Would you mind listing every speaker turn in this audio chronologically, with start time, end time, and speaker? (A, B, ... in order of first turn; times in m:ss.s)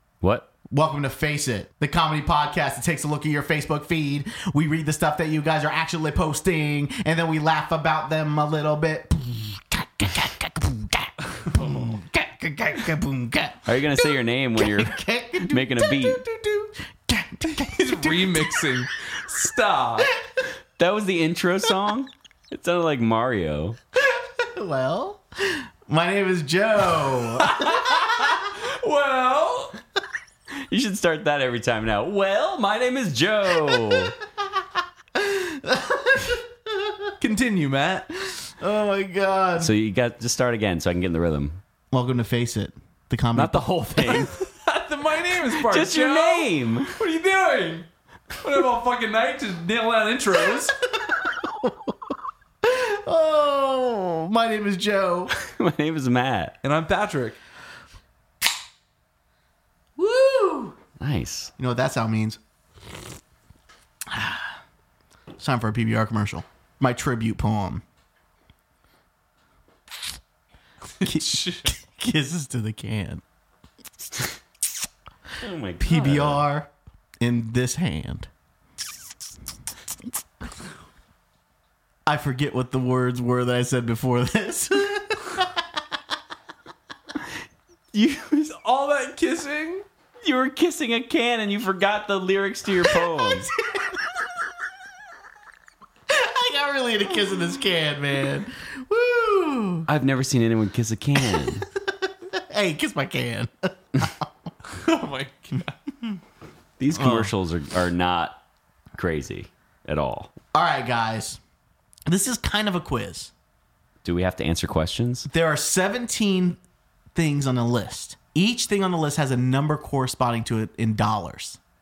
0:00.2-0:00.5 A
0:00.7-0:18.7 B
0:13.7-0:16.2 A
0:17.6-0:20.1 C
0:20.8-0:23.8 A
0:24.0-0:28.0 B
0:27.4-0:29.8 C
0:30.7-0:34.2 A
0:33.7-0:34.0 B
0:35.2-0:37.1 B
0:37.2-0:38.1 C
0:38.2-0:39.7 B
0:39.6-0:41.6 A
0:41.9-0:44.3 B
0:43.3-0:44.3 A
0:44.1-0:47.9 C
0:45.6-0:46.9 A
0:48.4-0:50.8 C
0:50.8-0:55.3 B
0:55.3-0:56.6 A
0:56.6-0:57.4 C
1:00.0-1:00.8 B
1:01.0-1:01.5 A
1:01.6-1:02.4 B
1:04.1-1:04.6 B
1:05.4-1:07.8 B
1:11.0-1:11.7 C
1:11.0-1:13.2 B
1:15.4-1:16.5 A
1:15.8-1:16.7 B
1:17.2-1:18.3 B
1:22.1-1:25.7 B
1:27.9-1:28.6 A
1:28.6-1:29.8 C
1:30.2-1:33.5 A
1:32.8-1:34.1 B
1:36.1-1:39.9 B
1:39.9-1:41.7 A
1:41.2-1:44.5 B
1:44.7-1:45.7 C
1:46.8-1:48.4 A
1:46.9-1:47.3 B
1:49.0-1:50.3 A
1:50.5-1:51.4 B
1:52.1-1:53.3 B
1:54.0-1:55.3 A
1:55.3-1:56.6 B
1:57.2-2:01.6 B